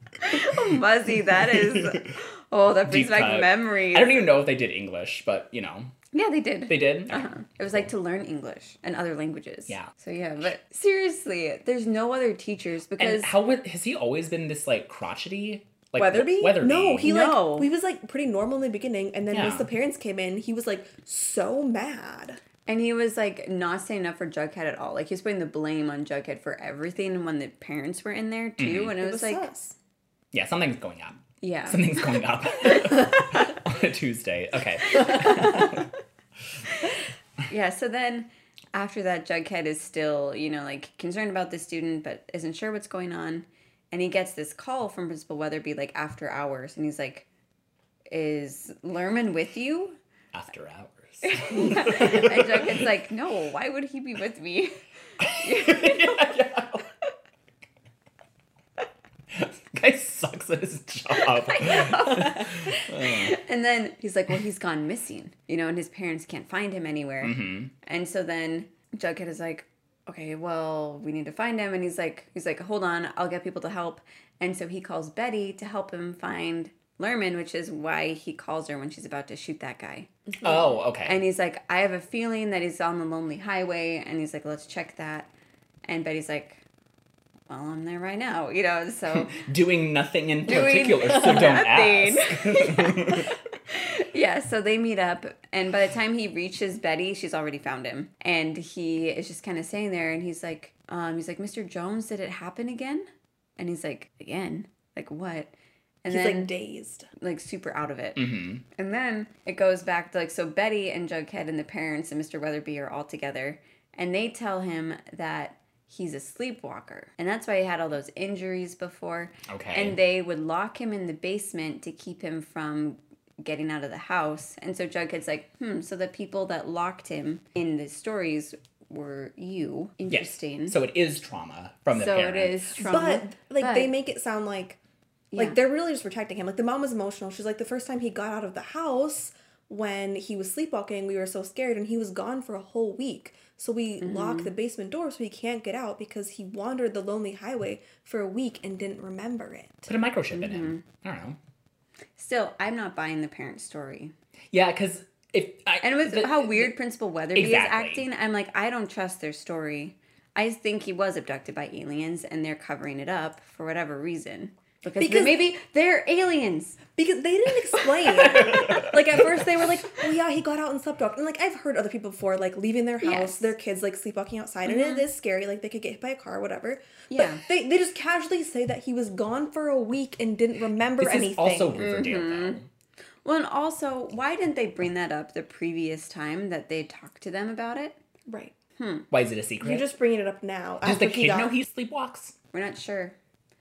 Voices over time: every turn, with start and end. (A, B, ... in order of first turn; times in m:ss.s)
0:00.2-0:04.3 A
0:01.2-0:02.1 B
0:02.8-0:05.9 B
0:06.1-0:13.3 A
0:06.7-0:07.9 B
0:13.0-0:17.1 B
0:16.0-0:22.4 C
0:17.0-0:17.7 A
0:19.3-0:19.7 B
0:22.7-0:29.5 A
0:28.6-0:29.0 B
0:29.0-0:29.8 C
0:30.3-0:35.9 B
0:31.4-0:33.4 A
0:34.9-0:35.8 A
0:37.5-0:47.2 A
0:48.1-0:50.0 A
0:50.3-0:52.9 B
0:51.2-0:54.8 A
0:55.2-0:56.8 B
0:55.3-0:56.2 A
0:59.3-1:03.4 B
1:01.4-1:20.1 A
1:07.2-1:07.7 B
1:20.4-1:21.2 B
1:21.0-1:25.3 A
1:25.8-1:26.6 A
1:27.5-1:29.5 A
1:29.2-1:33.3 B
1:30.4-1:43.1 A
1:43.6-1:45.5 A
1:46.0-1:46.5 A
1:46.1-1:47.1 C
1:47.2-2:10.8 A
1:48.2-1:48.6 B
1:59.5-2:00.0 B
2:10.1-2:12.6 B
2:11.9-2:13.9 A
2:12.8-2:14.8 C
2:15.4-2:29.9 C
2:24.0-2:24.5 A
2:29.9-2:31.4 B
2:30.3-2:30.8 A
2:32.2-2:34.1 A
2:34.5-2:36.7 B
2:35.8-2:46.8 A
2:37.3-2:38.0 B
2:44.9-2:45.5 C
2:47.0-3:01.8 C
2:48.2-2:48.9 A
2:53.0-2:53.5 A
2:54.6-2:55.0 A
2:57.1-2:57.4 A
3:01.0-3:02.6 B
3:01.8-3:02.6 A
3:03.2-3:08.0 A
3:08.3-3:08.5 C
3:08.8-3:09.1 A
3:09.1-3:09.9 B
3:09.6-3:11.6 C
3:10.8-3:12.3 B
3:12.5-3:13.2 A